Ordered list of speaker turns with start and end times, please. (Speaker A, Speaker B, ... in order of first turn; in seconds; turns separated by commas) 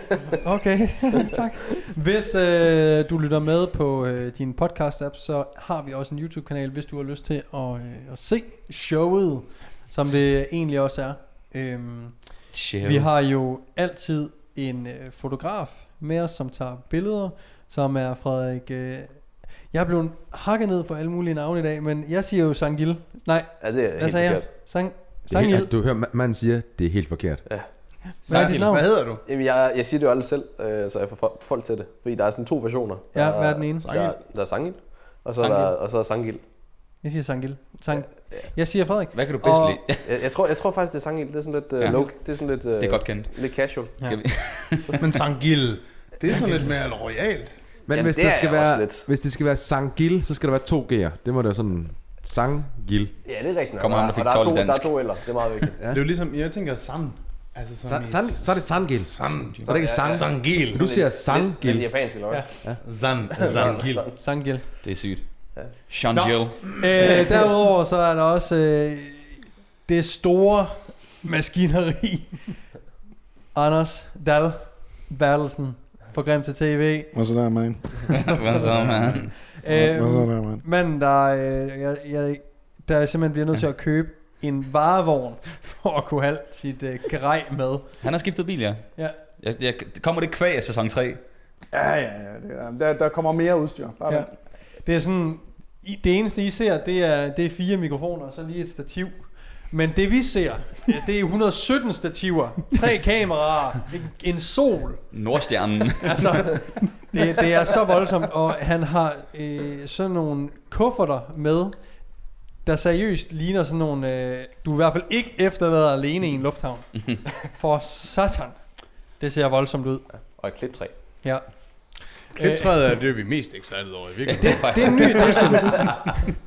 Speaker A: 0.4-25.7, Speaker B: 12.5-13.1, Speaker C: 23.6-24.7, Speaker D: 25.3-28.0, Speaker C: 27.4-27.8, Speaker A: 28.1-28.9, Speaker E: 28.2-29.2, Speaker B: 28.3-28.6, Speaker C: 29.2-36.4, Speaker A: 33.1-33.9, Speaker D: 33.8-34.2, Speaker B: 35.4-35.8, Speaker A: 37.0-39.8, Speaker C: 37.9-38.6, Speaker B: 39.1-40.1, Speaker C: 40.0-44.0, Speaker B: 41.8-45.0, Speaker A: 44.0-44.5, Speaker E: 45.0-47.7, Speaker D: 47.9-53.1, Speaker C: 47.9-49.1, Speaker C: 53.2-55.8, Speaker B: 53.8-55.2, Speaker D: 55.8-56.0, Speaker E: 55.9-60.8, Speaker D: 57.8-62.8, Speaker C: 59.6-62.8, Speaker E: 62.8-64.1, Speaker C: 63.3-64.1, Speaker A: 64.0-64.7, Speaker B: 64.8-66.9, Speaker A: 66.1-72.7, Speaker A: 73.5-77.5, Speaker F: 77.1-78.6, Speaker B: 78.2-79.4, Speaker A: 79.1-88.1, Speaker F: 79.7-80.6, Speaker B: 88.0-91.3, Speaker F: 91.7-94.3, Speaker A: 94.1-105.3, Speaker B: 105.1-106.5, Speaker A: 106.0-122.7, Speaker C: 120.1-121.2, Speaker E: 122.3-125.9, Speaker B: 124.2-126.1, Speaker A: 124.4-126.1